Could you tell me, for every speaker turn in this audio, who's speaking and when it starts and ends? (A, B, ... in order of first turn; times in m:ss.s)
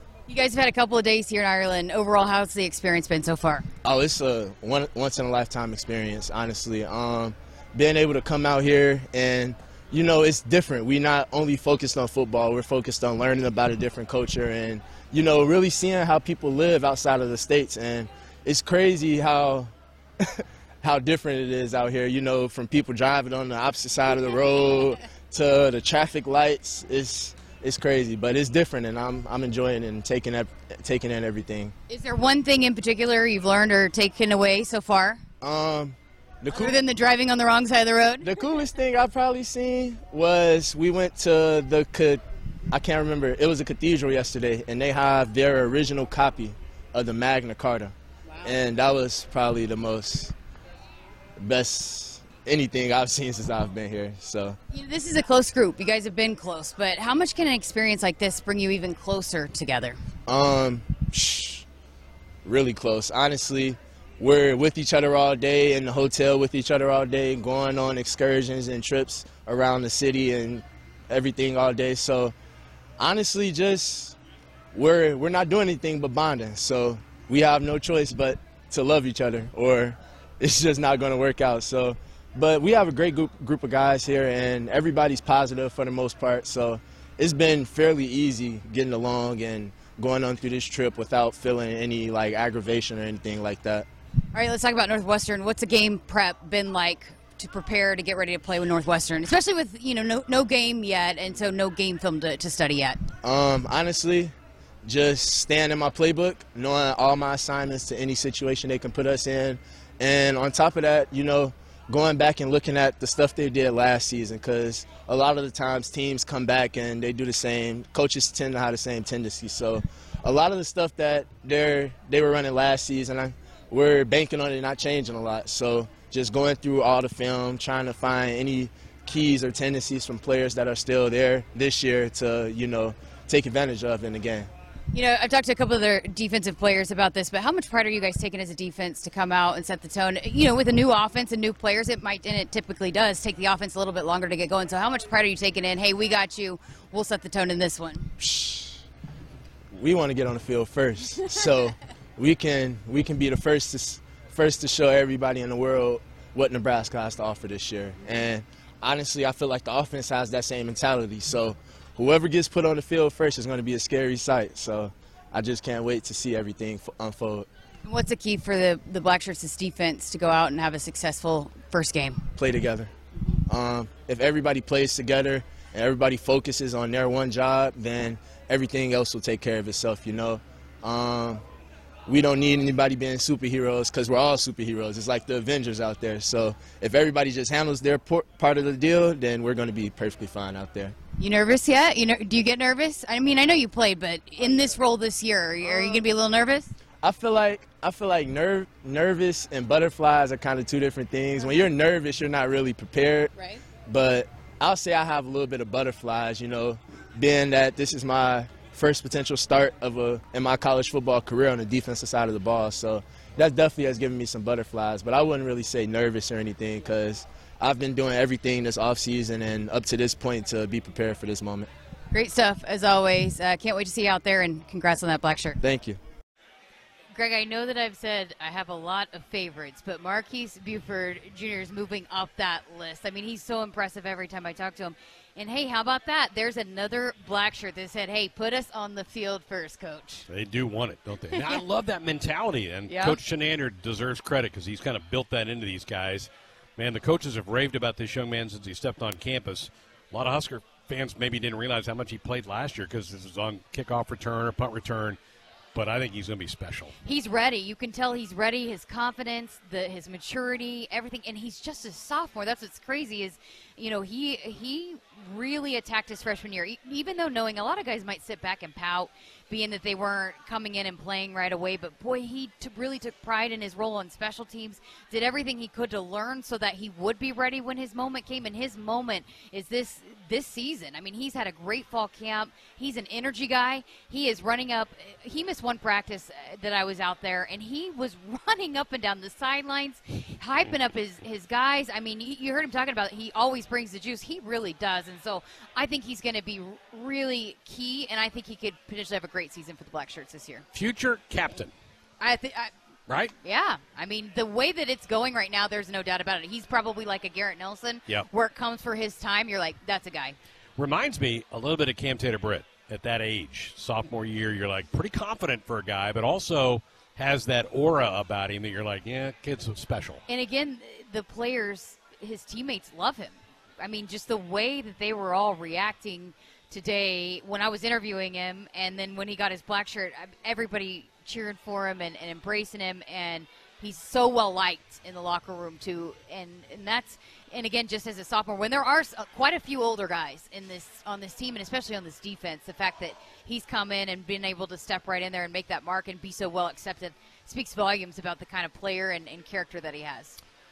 0:00.3-0:03.7 A
0:03.8-0:31.7 B
0:31.9-0:35.2 A
0:35.4-0:36.8 B
0:36.6-0:38.3 A
0:38.2-0:50.3 B
0:51.4-0:54.6 B
0:54.7-1:00.0 A
1:00.3-1:01.7 B
1:02.4-1:12.4 B
1:13.0-1:14.2 B
1:14.7-1:33.9 B
1:34.3-1:43.0 A
1:43.2-1:44.3 B
1:44.8-2:14.5 B
2:14.9-2:28.1 A
2:28.2-2:28.8 B
2:29.7-2:47.5 B
2:47.8-2:52.3 A
2:52.4-2:52.9 B
2:53.5-3:01.4 B
3:02.1-3:11.0 B
3:11.2-3:16.8 A
3:17.0-3:23.3 B
3:23.9-3:41.7 B
3:42.1-3:45.6 A
3:45.6-3:46.0 B
3:47.1-4:00.3 A
4:00.3-4:15.2 C
4:01.3-4:01.6 A
4:02.9-4:03.2 A
4:15.7-4:17.0 C
4:17.0-5:00.6 A
5:00.7-5:01.7 C
5:02.2-5:02.7 A
5:03.1-5:03.3 C
5:03.4-5:10.4 A
5:10.8-5:20.2 C
5:20.3-5:50.4 A